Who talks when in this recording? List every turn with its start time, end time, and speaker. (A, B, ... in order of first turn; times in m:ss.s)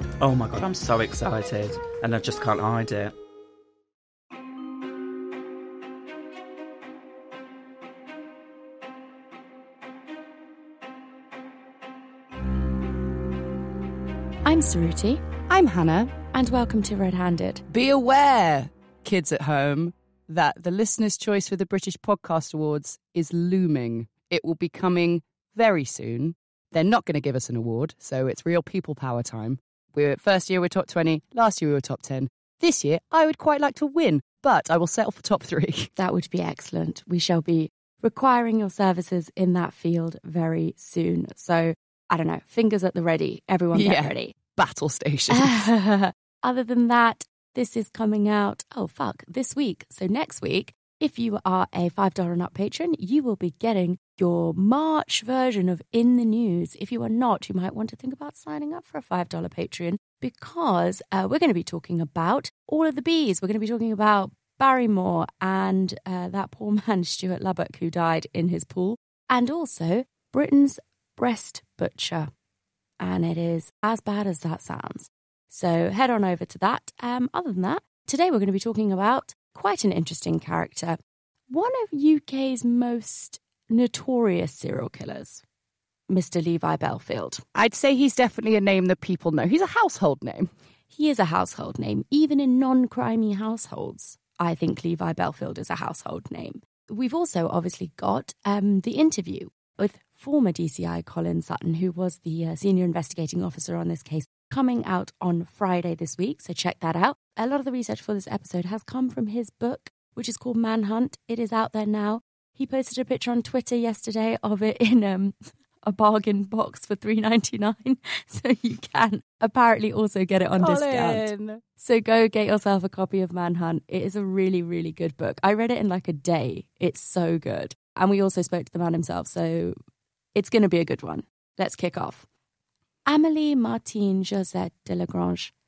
0:00.2-0:03.1 A
0:14.4-0:15.3 B
0:15.5-0:16.2 C
0:16.3-0:17.6 B
0:17.7-0:35.9 C
0:36.0-0:44.4 B
0:43.7-0:45.7 C
0:45.3-1:12.3 B
1:13.0-1:21.0 B
1:21.5-1:25.4 B
1:26.1-1:27.4 B
1:27.5-1:30.5 C
1:30.9-2:09.8 B
2:00.6-2:01.6 C
2:10.4-2:12.3 B
2:13.1-2:15.5 B